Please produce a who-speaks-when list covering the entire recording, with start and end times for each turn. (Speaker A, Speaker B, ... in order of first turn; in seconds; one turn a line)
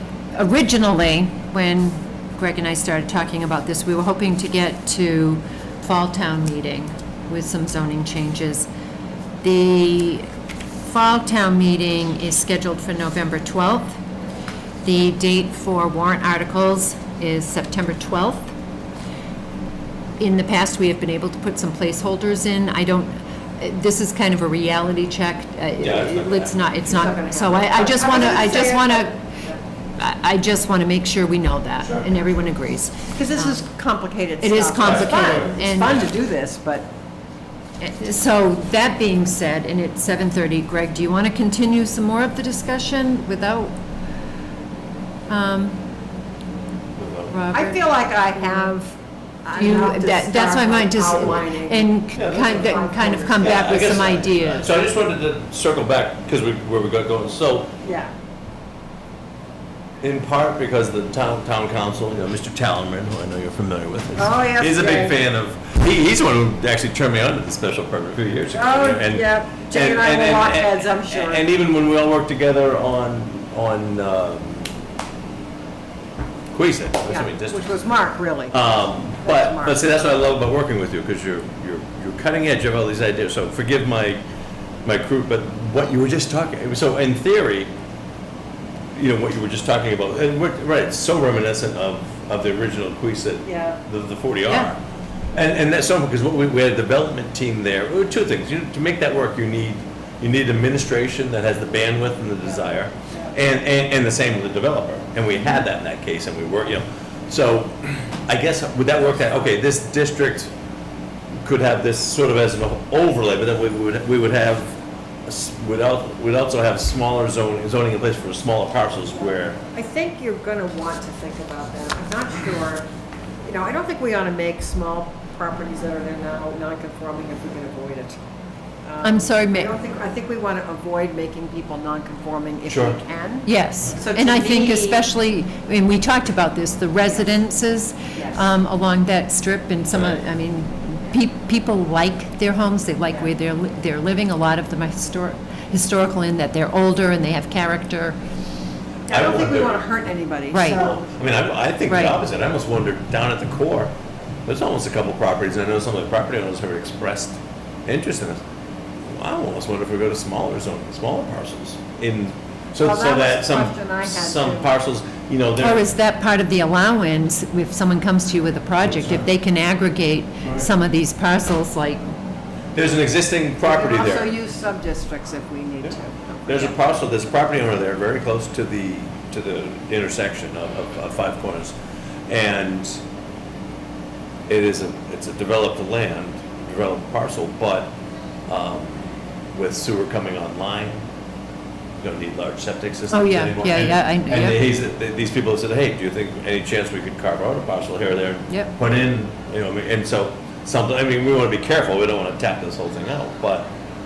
Speaker A: 0.3-8.7
Speaker A: 9.4-10.3
Speaker A: 10.8-14.0
Speaker A: 14.8-18.5
Speaker A: 20.2-29.2
Speaker B: 25.8-26.8
Speaker C: 26.9-29.6
Speaker A: 30.0-33.6
Speaker C: 33.1-36.9
Speaker A: 34.4-36.0
Speaker B: 34.8-35.5
Speaker A: 37.8-43.8
Speaker A: 45.3-45.8
Speaker B: 47.0-47.4
Speaker A: 47.3-48.7
Speaker C: 47.5-51.9
Speaker A: 49.5-54.7
Speaker B: 52.1-52.6
Speaker C: 52.4-54.1
Speaker B: 53.4-57.7
Speaker C: 57.8-58.1
Speaker B: 60.0-74.7
Speaker C: 64.2-65.1
Speaker C: 68.5-71.4
Speaker B: 76.5-77.8
Speaker C: 77.1-80.0
Speaker B: 78.5-84.2
Speaker B: 84.8-87.7
Speaker B: 88.9-94.8
Speaker C: 93.4-93.8
Speaker B: 95.3-110.5
Speaker C: 102.4-103.3
Speaker B: 111.4-119.6
Speaker C: 119.7-122.9
Speaker C: 123.4-128.2
Speaker C: 128.8-135.0
Speaker A: 129.0-129.7
Speaker B: 132.7-133.0
Speaker A: 133.4-148.2
Speaker C: 138.1-138.4
Speaker B: 139.9-140.2
Speaker B: 149.1-149.8
Speaker C: 149.1-151.0
Speaker A: 150.5-150.8
Speaker B: 150.7-153.9
Speaker A: 151.9-152.1
Speaker B: 154.4-158.4
Speaker B: 159.0-165.9
Speaker C: 162.8-164.7
Speaker A: 165.6-172.0
Speaker B: 168.8-169.2
Speaker B: 172.7-174.3
Speaker C: 173.6-176.8
Speaker B: 176.5-181.7
Speaker B: 182.3-183.0
Speaker B: 184.5-187.9
Speaker B: 188.5-191.0
Speaker B: 192.0-203.7
Speaker A: 193.1-194.6